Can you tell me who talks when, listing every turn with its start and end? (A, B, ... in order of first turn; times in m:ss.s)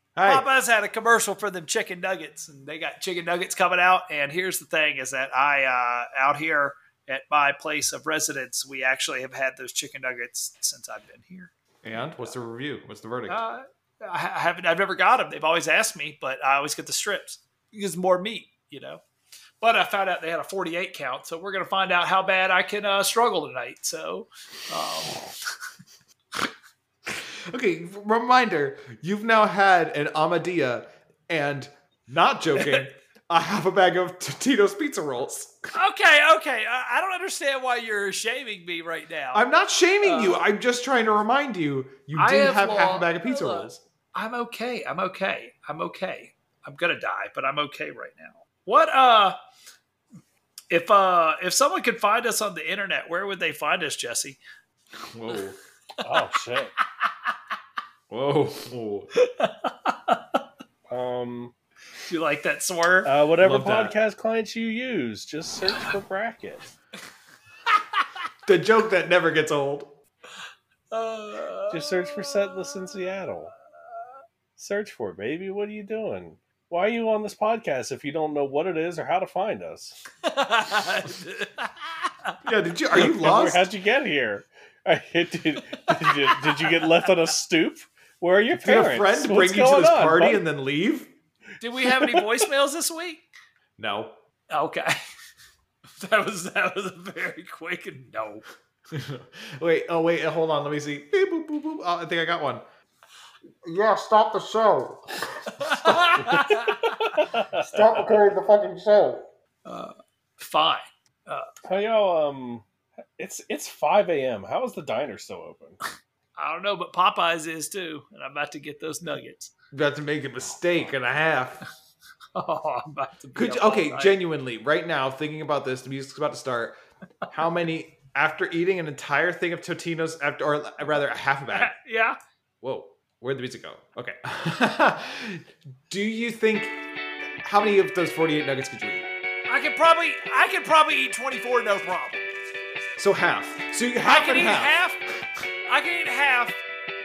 0:00.2-0:00.5 A
0:00.2-0:12.3 B
0:11.8-0:13.4 A
0:13.3-0:19.0 B
0:19.6-0:25.3 B
0:27.1-0:35.7 A
0:32.6-0:32.8 B
0:35.7-0:39.5 B
0:39.3-0:43.8 A
0:40.0-0:40.4 B
0:42.2-0:49.4 B
0:50.7-0:54.4 B
0:55.1-0:55.6 A
0:56.0-0:56.7 C
0:58.1-0:59.1 A
0:59.2-1:00.4 B
1:00.9-1:01.5 C
1:02.1-1:03.1 B
1:03.0-1:06.7 C
1:03.4-1:04.0 A
1:07.7-1:08.0 B
1:08.4-1:10.0 A
1:10.9-1:13.0 B
1:11.7-1:13.5 C
1:14.6-1:20.0 C
1:20.2-1:22.3 B
1:22.4-1:23.7 A
1:22.9-1:30.4 C
1:28.5-1:31.1 A
1:31.6-1:33.2 B
1:31.9-1:32.2 C
1:33.8-1:34.2 A
1:34.5-1:34.9 B
1:36.0-1:38.4 B
1:38.9-1:42.6 A
1:43.6-1:45.7 D
1:45.5-1:47.2 B
1:46.2-1:46.4 C
1:47.0-1:48.2 C
1:47.7-1:49.3 D
1:49.6-1:51.5 B
1:51.6-1:52.6 C
1:53.2-1:55.8 C
1:56.4-1:59.5 B
1:59.7-2:01.6 A
2:02.4-2:04.2 B
2:03.3-2:11.7 A
2:11.5-2:12.2 B
2:12.6-2:16.8 A
2:17.4-2:19.1 A
2:19.5-2:22.2 B
2:23.0-2:24.8 A
2:24.0-2:25.0 B
2:25.7-2:26.6 B